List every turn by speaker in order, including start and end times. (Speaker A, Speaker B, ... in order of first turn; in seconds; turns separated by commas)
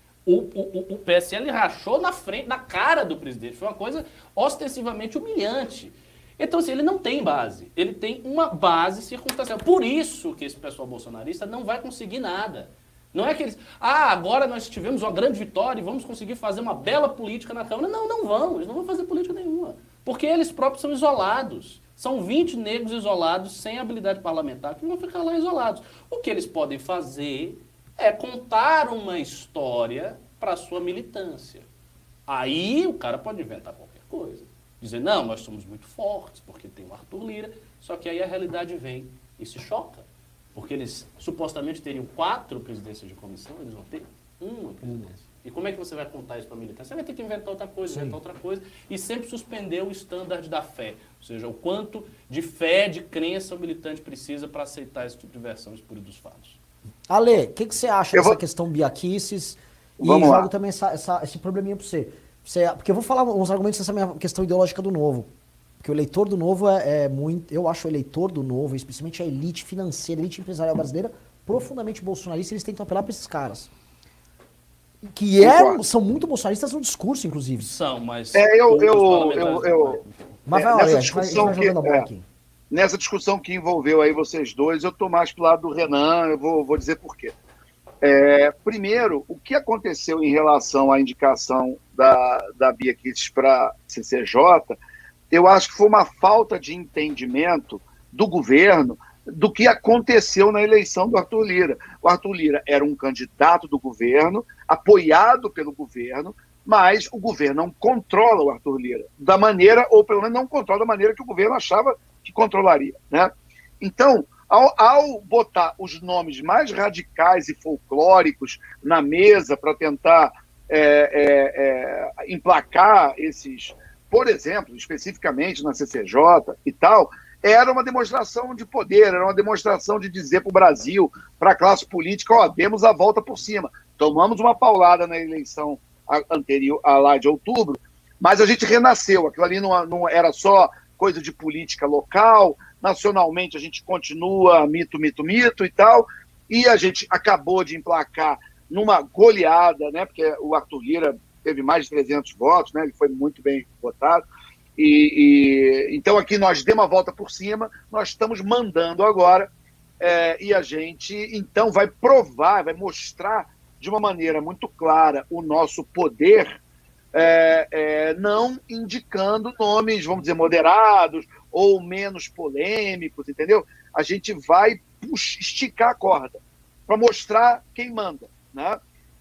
Speaker A: 0.3-31.7, Speaker A: 32.3-56.6, Speaker B: 47.9-48.2, Speaker B: 57.1-65.3, Speaker C: 60.0-60.5, Speaker B: 65.8-73.7, Speaker B: 75.0-77.7, Speaker C: 75.4-75.8, Speaker A: 77.6-80.1, Speaker C: 78.3-82.1, Speaker B: 80.5-82.2, Speaker C: 82.7-87.3, Speaker C: 88.0-94.8, Speaker C: 95.3-154.2, Speaker C: 154.8-166.6, Speaker C: 167.1-178.8